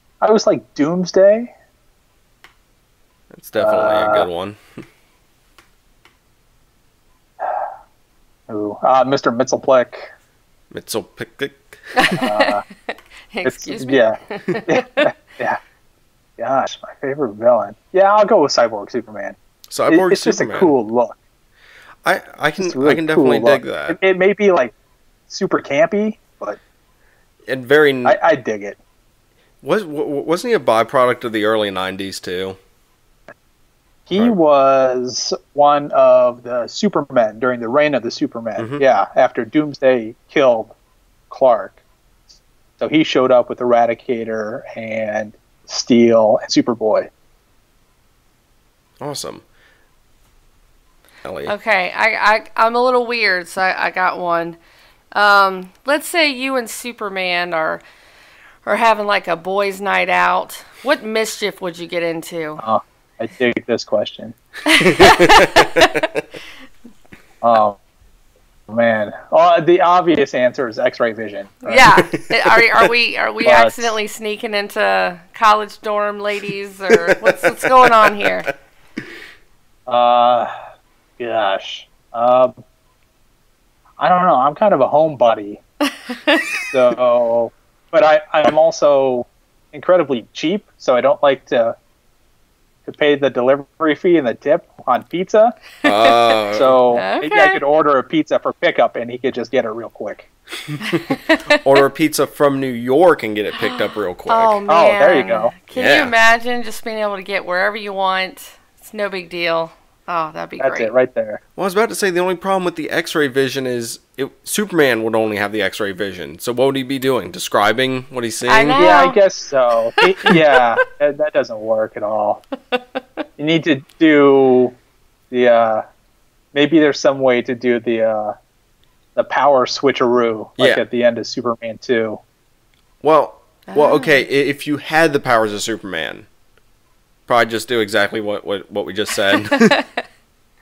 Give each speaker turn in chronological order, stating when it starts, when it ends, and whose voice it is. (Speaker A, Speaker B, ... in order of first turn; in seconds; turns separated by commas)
Speaker A: 0.2-1.5, Speaker B: 3.3-4.6, Speaker A: 3.6-4.3, Speaker A: 8.5-10.1, Speaker B: 10.7-12.2, Speaker C: 11.9-15.1, Speaker A: 12.2-12.6, Speaker A: 13.4-15.6, Speaker A: 16.4-19.4, Speaker B: 19.7-20.7, Speaker A: 19.9-21.2, Speaker B: 22.0-24.0, Speaker A: 22.6-24.7, Speaker A: 25.3-26.6, Speaker B: 27.4-28.2, Speaker A: 28.0-28.8, Speaker B: 29.6-32.6, Speaker A: 34.1-40.7, Speaker B: 38.6-38.8, Speaker A: 41.3-41.8, Speaker A: 42.8-47.1, Speaker B: 49.0-49.4, Speaker B: 51.2-51.5, Speaker C: 51.5-54.6, Speaker C: 55.1-57.8, Speaker C: 58.6-62.6, Speaker A: 62.6-64.4, Speaker C: 64.7-66.0, Speaker B: 64.8-66.2, Speaker A: 67.4-67.8, Speaker A: 68.7-72.0, Speaker C: 71.6-78.5, Speaker A: 73.4-73.9, Speaker B: 77.1-78.5, Speaker A: 79.9-80.5, Speaker A: 81.2-82.5, Speaker A: 84.0-85.6, Speaker C: 86.1-86.5, Speaker A: 86.7-91.8, Speaker A: 92.8-95.6, Speaker B: 95.8-96.8, Speaker C: 95.9-96.4, Speaker A: 96.5-100.3, Speaker C: 96.9-97.6, Speaker C: 100.8-101.6, Speaker B: 101.5-104.6, Speaker C: 103.5-110.9, Speaker A: 104.7-105.5, Speaker B: 105.7-106.1, Speaker A: 110.6-111.4, Speaker B: 111.5-119.0, Speaker C: 118.5-119.2, Speaker A: 118.8-122.4, Speaker C: 120.0-120.3, Speaker A: 123.4-124.8, Speaker A: 125.3-125.8, Speaker A: 126.5-128.3, Speaker A: 129.2-132.2, Speaker B: 130.6-130.8, Speaker B: 133.0-136.3, Speaker C: 133.7-134.2, Speaker B: 137.3-139.8